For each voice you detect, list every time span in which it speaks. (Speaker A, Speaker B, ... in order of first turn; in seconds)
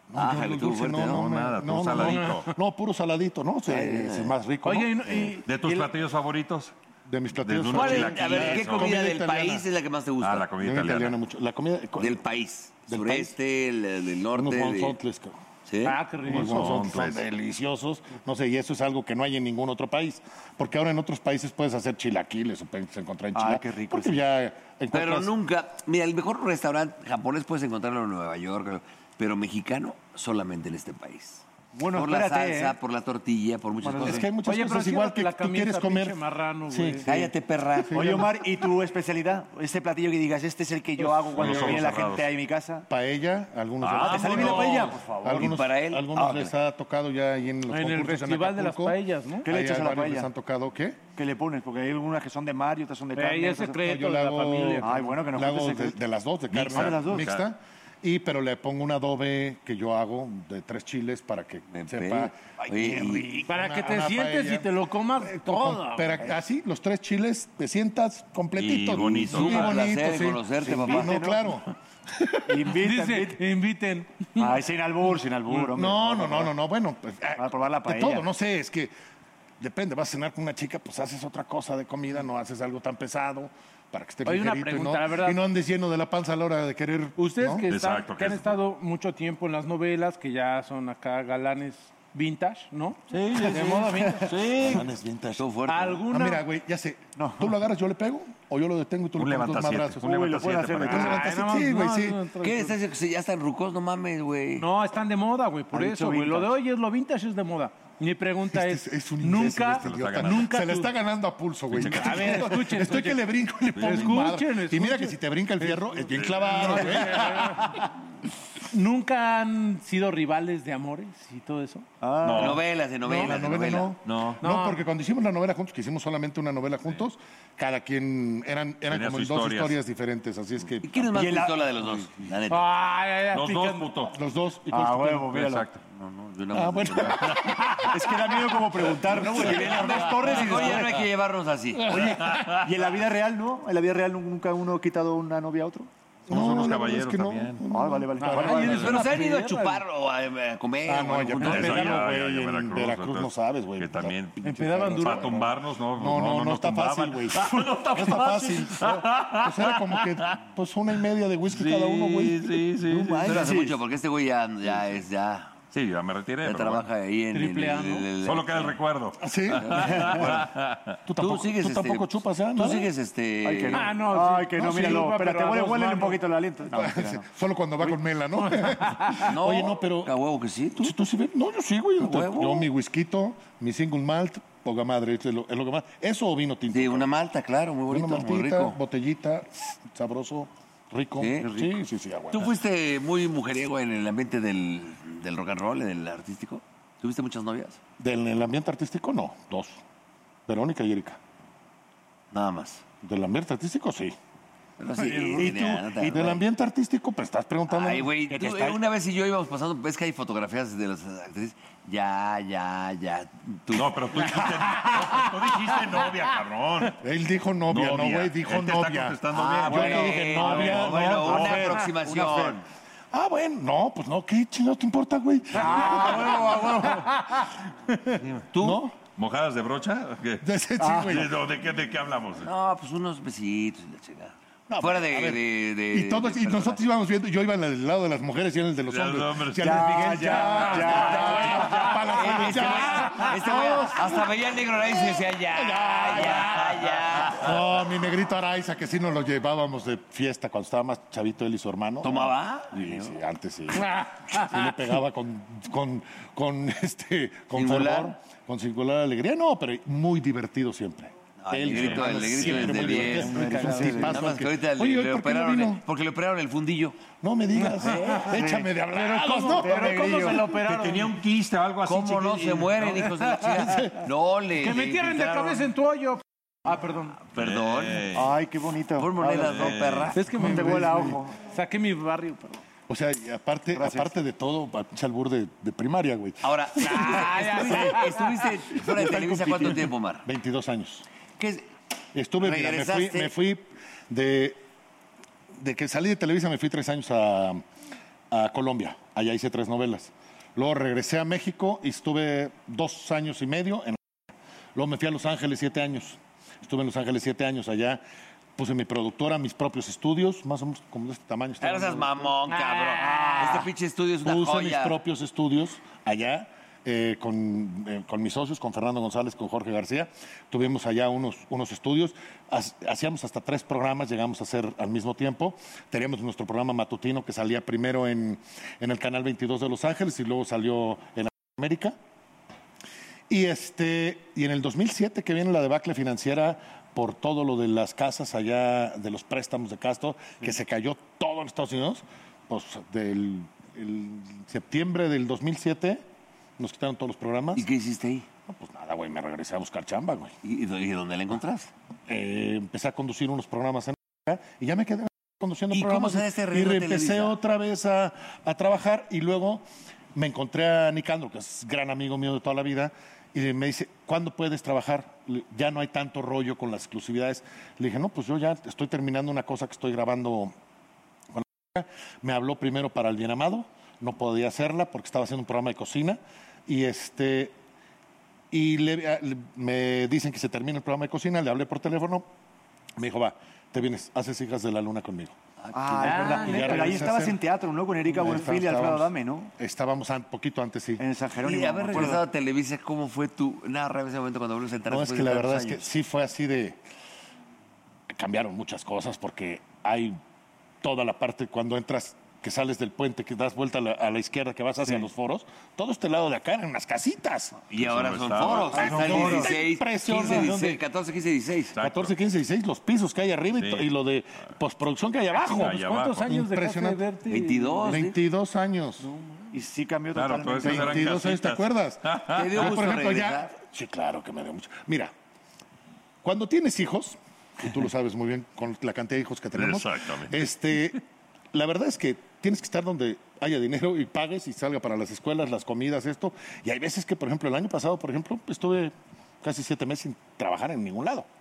Speaker A: 0.1-5.4, 7.0-9.7, 10.5-12.2, 12.9-13.3, 14.3-15.4, 16.2-25.3, 34.0-36.2, 36.7-37.2, 37.8-38.3, 42.9-51.0, 53.8-71.6, 75.7-78.9, 79.6-87.6, 94.5-95.5, 96.1-100.0, 100.8-102.3, 108.5-117.8, 123.0-131.1, 134.1-135.3, 136.5-137.9, 146.3-148.6, 150.8-162.7, 169.2-170.1, 171.1-172.9, 174.6-175.1, 176.7-180.1, 180.8-187.1, 187.9-192.6, 198.0-199.8, 200.5-201.2, 203.0-204.1, 205.2-208.1, 217.0-221.6, 223.1-227.0, 228.6-228.9, 230.4-231.3, 234.7-244.3, 244.8-265.8, 267.2-270.4, 273.6-273.9, 280.4-281.1, 282.9-287.9, 288.7-291.0, 292.1-294.6, 295.6-297.6, 298.3-304.0, 304.7-308.0, 308.6-312.3, 314.2-331.9, 333.3-346.0, 346.6-347.7, 348.5-350.3, 352.1-370.5, 371.3-377.5, 378.5-382.3, 383.0-385.3, 386.3-387.4, 388.1-391.0, 394.9-396.8, 398.1-400.2, 400.8-407.6, 408.7-410.8, 411.8-417.0, 417.9-419.1, 420.6-425.1, 426.2-431.0, 431.5-441.3
Speaker B: 0.1-1.3, 3.7-4.4, 7.7-10.5, 12.0-15.0, 15.7-16.0, 24.9-34.3, 37.0-38.2, 44.0-46.5, 61.7-63.5, 69.2-71.3, 95.4-96.1, 102.4-104.7, 122.3-123.9, 130.8-132.7, 135.8-137.5, 139.2-142.1, 148.5-152.0, 163.2-165.6, 166.4-168.7, 169.5-170.5, 171.2-173.9, 179.2-181.0, 182.0-182.7, 186.7-188.8, 191.2-191.7, 192.3-197.8, 202.3-202.8, 204.8-206.4, 207.7-214.0, 219.3-222.6, 228.5-228.8, 232.4-236.8, 240.9-247.6, 252.0-253.2, 257.5-258.2, 261.4-266.9, 271.8-275.7, 277.3-278.2, 279.0-280.3, 286.4-290.2, 291.4-291.7, 292.4-293.3, 311.6-315.0, 347.5-348.2, 350.4-351.7, 355.7-357.4, 385.6-386.6, 391.4-395.9, 407.7-411.8, 417.3-418.2, 422.3-423.5
Speaker C: 1.0-2.5, 5.4-6.7, 7.4-9.0, 10.2-11.2, 16.3-17.2, 41.3-42.2, 43.8-44.9, 56.6-57.5, 68.5-69.8, 87.7-88.6, 93.1-94.9, 99.2-101.3, 109.4-110.6, 111.7-112.5, 113.7-114.3, 116.1-117.5, 122.2-122.6, 124.0-124.4, 128.9-129.8, 133.3-134.1, 135.1-135.7, 141.9-142.7, 146.3-147.6, 151.4-160.4, 161.5-163.5, 165.7-166.9, 168.2-171.0, 213.7-216.9, 217.7-221.4, 228.2-232.5, 238.9-241.1, 261.7-263.3, 270.6-273.0, 277.3-278.3, 279.4-280.2, 407.8-409.3, 411.7-412.1, 413.6-413.9, 415.4-416.4, 420.1-423.0, 429.5-430.9
Speaker D: 2.0-2.5, 4.6-5.9, 15.8-16.7, 34.4-37.1, 47.7-49.5, 53.1-55.2, 63.5-66.2, 72.7-74.6, 84.2-85.4, 87.2-94.5, 95.7-96.4, 100.8-102.8, 104.6-110.9, 111.8-117.8, 118.7-121.9, 124.4-124.9, 132.5-133.9, 148.2-149.8, 154.4-155.4, 167.3-168.1, 173.7-176.2, 221.5-221.8, 225.7-227.4, 254.0-254.7, 263.4-264.1, 267.6-268.3, 268.9-271.2, 274.6-277.2, 280.1-282.6, 286.8-288.4, 312.5-313.4, 386.0-387.1, 415.4-418.0, 419.0-419.5
Speaker E: 23.3-24.2, 31.7-32.8, 33.8-34.3, 37.9-42.9, 44.0-45.6, 49.4-50.3, 51.1-53.8, 54.8-56.0, 56.5-57.3, 70.6-71.6, 72.5-73.4, 74.4-76.5, 77.4-78.3, 97.2-97.6, 100.0-101.3, 105.7-106.5, 122.0-122.6, 131.1-132.1, 134.7-135.8, 137.8-141.1, 141.9-145.9, 147.7-149.0, 162.9-163.8, 169.8-170.2, 173.4-177.3, 208.3-208.8, 220.4-222.6, 225.6-226.9, 230.8-231.2, 239.6-242.8, 262.4-264.4, 267.8-268.8, 269.4-270.5, 278.1-281.3, 283.7-284.2, 313.0-313.7, 385.7-389.5, 391.0-392.3, 408.7-409.5, 419.5-421.1